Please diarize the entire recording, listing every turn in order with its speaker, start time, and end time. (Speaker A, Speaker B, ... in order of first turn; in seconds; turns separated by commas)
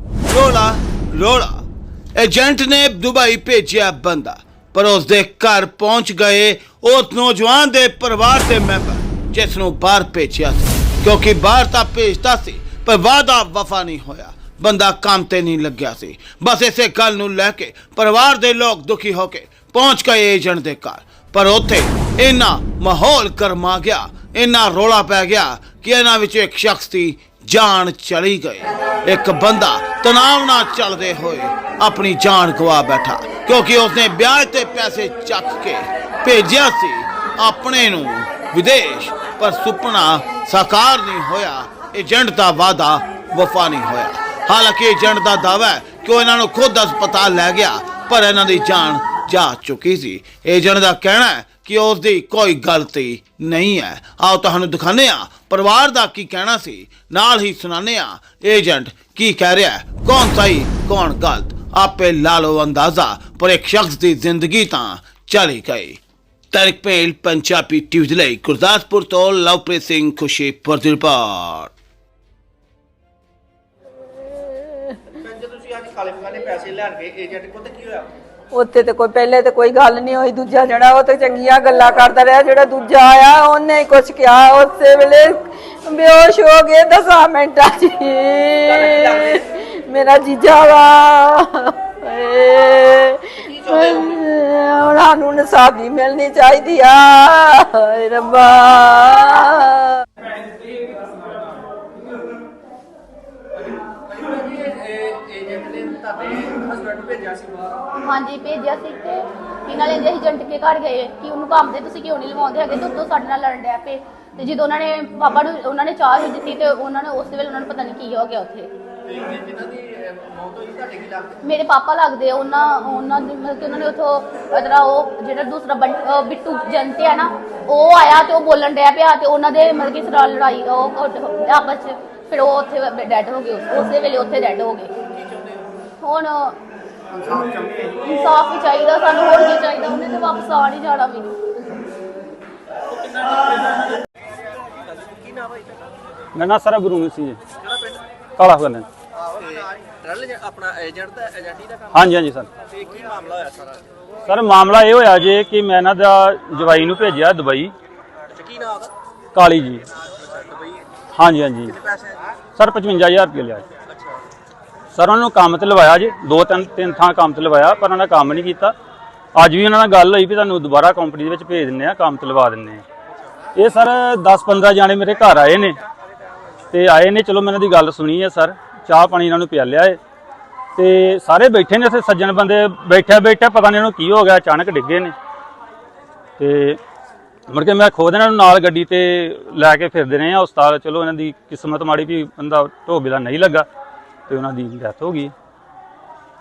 Speaker A: 0.3-1.6, Speaker A: 2.2-66.0, Speaker A: 66.5-71.7, Speaker B: 75.1-78.1, Speaker C: 78.5-100.0, Speaker B: 103.8-107.8, Speaker D: 107.9-118.7, Speaker B: 119.0-121.4, Speaker D: 121.4-134.9, Speaker B: 135.2-135.7, Speaker D: 136.0-136.6, Speaker B: 137.1-137.9, Speaker D: 137.9-141.3, Speaker B: 142.9-143.8, Speaker B: 144.8-145.8, Speaker E: 146.3-147.4, Speaker B: 147.6-148.0, Speaker E: 148.4-148.9, Speaker B: 149.2-152.1, Speaker E: 151.9-152.5, Speaker B: 152.7-154.0, Speaker E: 154.3-157.7, Speaker B: 158.3-158.9, Speaker E: 159.3-159.8, Speaker B: 160.2-160.8, Speaker E: 161.2-161.8, Speaker B: 161.7-162.2, Speaker E: 162.6-163.6, Speaker E: 164.9-168.7, Speaker E: 169.3-172.8, Speaker E: 173.6-175.8, Speaker E: 176.7-180.0, Speaker E: 180.8-185.1, Speaker E: 186.4-186.8, Speaker E: 187.5-193.7, Speaker E: 194.3-195.3